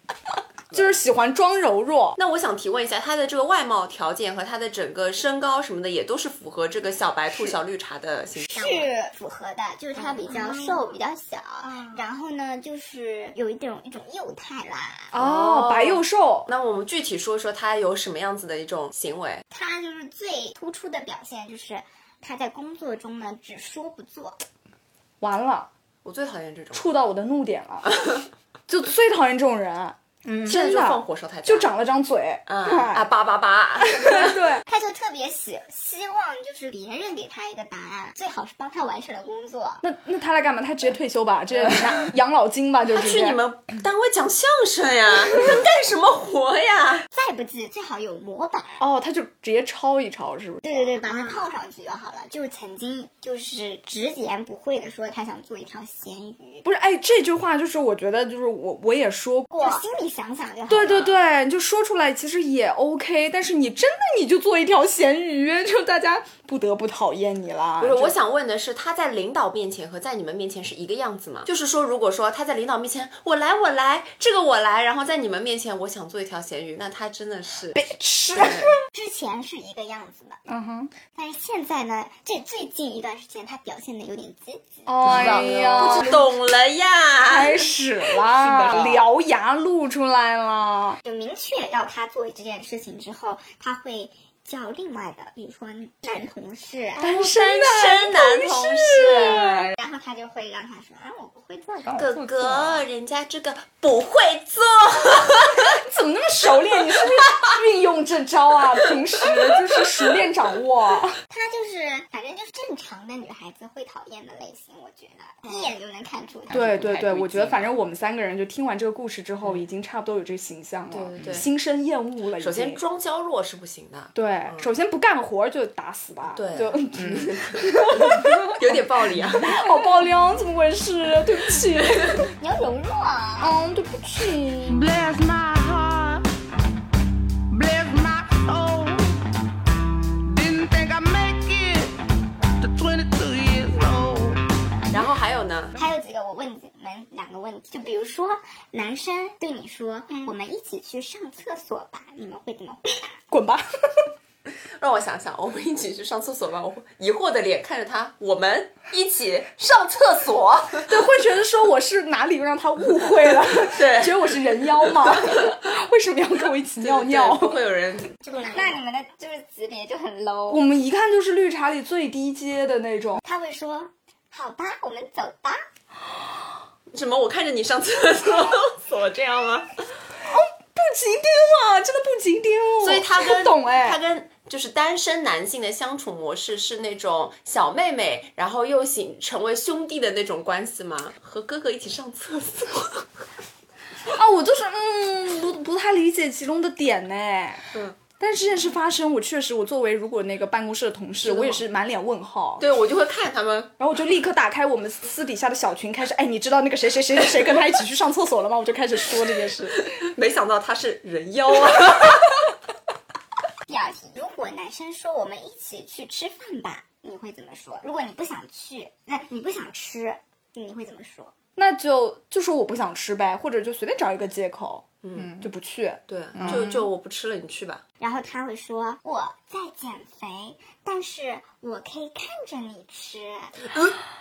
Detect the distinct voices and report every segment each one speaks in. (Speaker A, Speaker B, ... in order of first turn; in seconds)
Speaker A: 0.7-2.2, 15.1-16.5, 25.2-25.7, 26.7-28.1, 28.7-33.1, 33.9-34.6, 39.8-43.4, 48.8-51.0, 56.6-59.6, 60.7-68.1, 77.7-78.8, 80.5-80.9, 84.9-86.3, 87.2-91.0, 97.0-99.7, 101.9-102.8, 105.7-111.2, 116.5-122.8, 124.1-128.6, 129.4-132.3, 133.4-134.8, 153.3-154.1, 160.9-167.6, 170.5-173.2, 180.2-184.0, 194.1-197.7, 198.2-202.7, 203.8-209.9, 221.6-226.8
Speaker B: 2.2-8.9, 15.2-19.4, 26.0-26.9, 30.4-31.7, 32.5-34.4, 42.9-47.1, 67.8-78.7, 85.0-89.0, 97.0-99.7, 102.0-105.7, 116.5-117.7, 120.9-121.5, 122.4-124.7, 126.3-129.6, 144.9-145.8, 154.8-161.1, 163.2-165.5, 166.8-168.7, 176.9-179.8, 182.8-193.1, 201.2-201.6, 202.6-203.7, 209.8-212.5, 225.0-225.5, 226.1-227.8, 233.7-234.0
Speaker C: 8.5-15.1, 19.5-24.4, 34.7-39.8, 47.1-48.8, 50.6-56.6, 59.6-61.1, 78.9-80.4, 81.1-86.1, 91.0-97.1, 99.2-102.0, 111.3-116.8, 132.4-133.6, 145.8-153.1, 168.2-170.6, 173.2-175.6, 213.7-221.3, 228.0-233.6
Speaker D: 134.7-136.3, 137.5-139.2, 140.2-142.0, 142.6-144.4